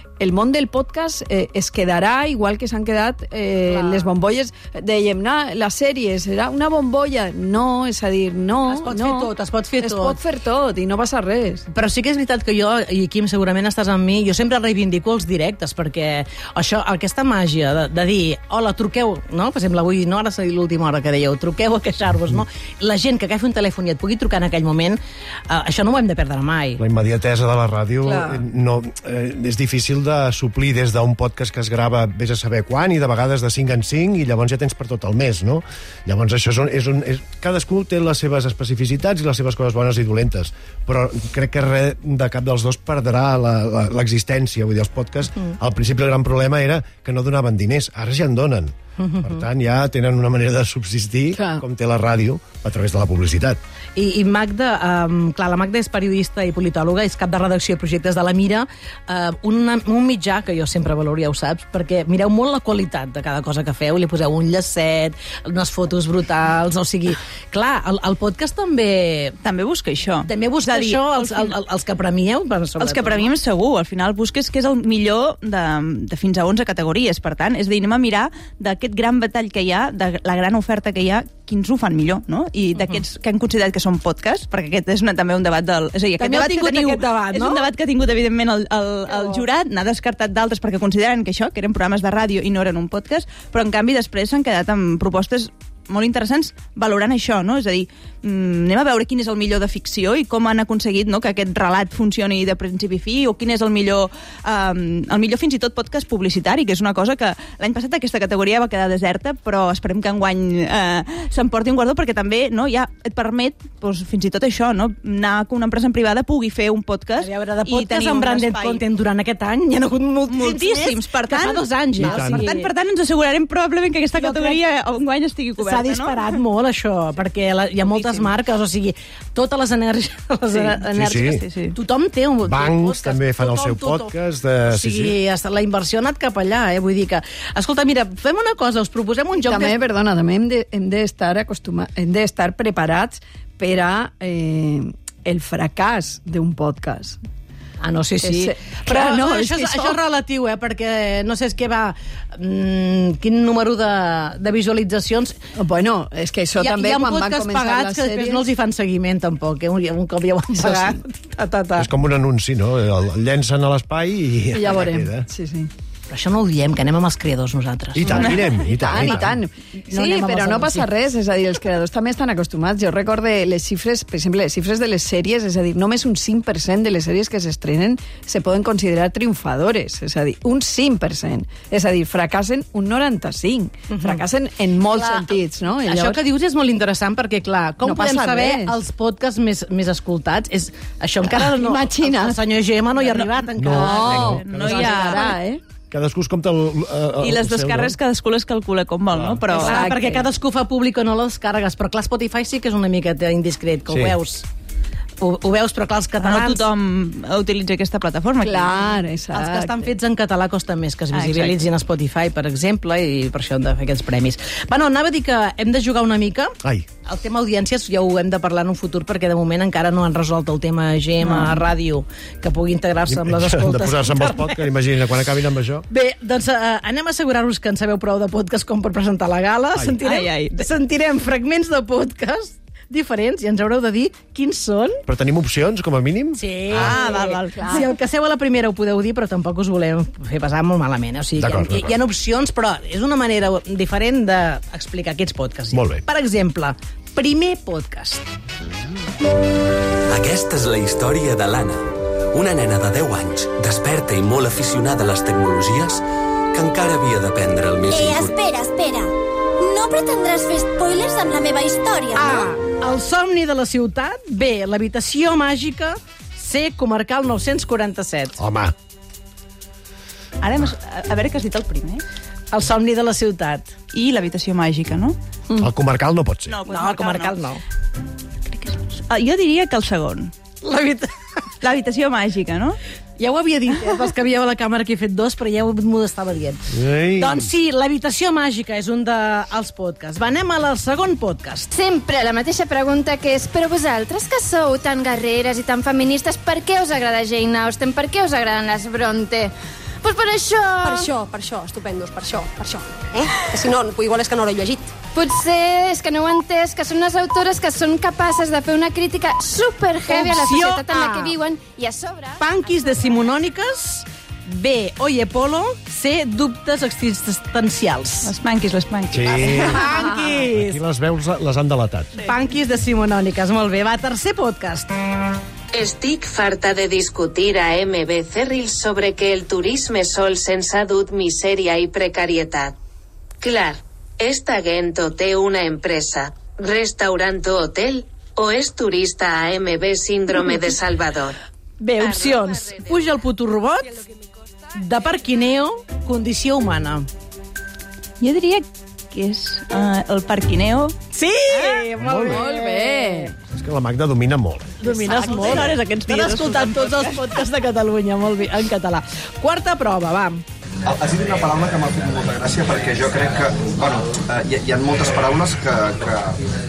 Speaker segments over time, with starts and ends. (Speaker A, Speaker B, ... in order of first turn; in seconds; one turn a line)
Speaker A: 0.2-11.7
Speaker B: 3.7-4.1
Speaker B: 8.7-10.2
Speaker B: 11.7-26.8
Speaker C: 26.8-53.6
Speaker B: 49.0-49.4
Speaker A: 51.4-51.6
Speaker B: 54.0-69.4
Speaker D: 69.4-71.5
Speaker B: 70.2-73.3
Speaker D: 72.8-118.8
Speaker B: 86.2-87.7
Speaker B: 117.2-122.7
Speaker D: 120.3-126.2
Speaker C: 122.0-122.5
Speaker B: 124.1-124.6
Speaker B: 125.6-139.8
Speaker D: 127.9-128.3
Speaker D: 130.5-131.8
Speaker C: 130.9-131.4
Speaker C: 132.4-135.2
Speaker A: 139.3-147.2
Speaker B: 147.8-155.4
Speaker A: 148.2-150.0
Speaker A: 155.6-158.5
Speaker B: 156.6-161.9
Speaker A: 160.6-161.0
Speaker C: 161.8-165.3
Speaker A: 164.5-165.7
Speaker B: 166.1-168.4
Speaker C: 167.9-169.4
Speaker A: 168.7-186.2
Speaker B: 168.9-169.3
Speaker B: 169.8-170.9
Speaker B: 183.9-184.2
Speaker B: 184.9-185.3
Speaker B: 185.8-194.4
Speaker A: 187.8-188.8
Speaker A: 191.3-192.4
Speaker D: 193.0-195.4
Speaker C: 193.6-195.2
Speaker A: 193.8-195.6
Speaker C: 195.9-198.0
Speaker D: 197.2-199.9
Speaker C: 199.1-199.4
Speaker A: 199.5-200.3
Speaker B: 199.5-204.5
Speaker C: 203.9-204.2
Speaker B: 205.2-206.7
Speaker D: 206.2-208.8
Speaker A: 208.4-209.9
Speaker B: 209.3-224.7
Speaker D: 211.1-211.6
Speaker C: 216.6-216.9
Speaker D: 221.2-221.6
Speaker C: 223.1-225.8
Speaker B: 225.9-235.0
Speaker D: 230.0-230.7
Speaker C: 235.1-237.2
Speaker B: 236.4-248.2
Speaker D: 236.7-237.9
Speaker A: 237.5-237.9
Speaker C: 241.4-242.0
Speaker C: 245.7-246.0
Speaker E: 250.1-258.4
Speaker F: 257.9-262.5
Speaker B: 262.1-268.4
Speaker C: 268.4-268.7
Speaker D: 270.4-272.0
Speaker B: 272.5-273.7
Speaker D: 273.9-275.2
Speaker C: 275.6-276.6
Speaker D: 276.5-277.4
Speaker B: 276.7-277.6
Speaker D: 278.5-280.3
Speaker B: 280.6-281.1
Speaker D: 281.6-282.8
Speaker B: 283.2-286.6
Speaker C: 286.7-287.5
Speaker B: 287.2-291.7
Speaker G: 291.7-301.1
Speaker H: 300.8-304.9
Speaker G: 305.1-312.8
Speaker B: 310.1-311.4
Speaker B: 312.4-318.3
Speaker D: 318.2-319.8
Speaker C: 319.1-322.1
Speaker B: 319.5-320.8
Speaker B: 322.2-324.9
Speaker I: 325.7-332.8
Speaker I: 333.4-341.4
Speaker B: 341.8-344.0
Speaker I: 342.0-342.9
Speaker B: 344.7-347.1
Speaker D: 348.2-351.0
Speaker B: 351.1-353.3
Speaker D: 351.5-351.9
Speaker C: 352.0-352.5
Speaker A: 352.2-353.3
Speaker C: 353.5-355.8
Speaker B: 354.8-360.4
Speaker D: 355.0-357.4
Speaker J: 360.9-366.4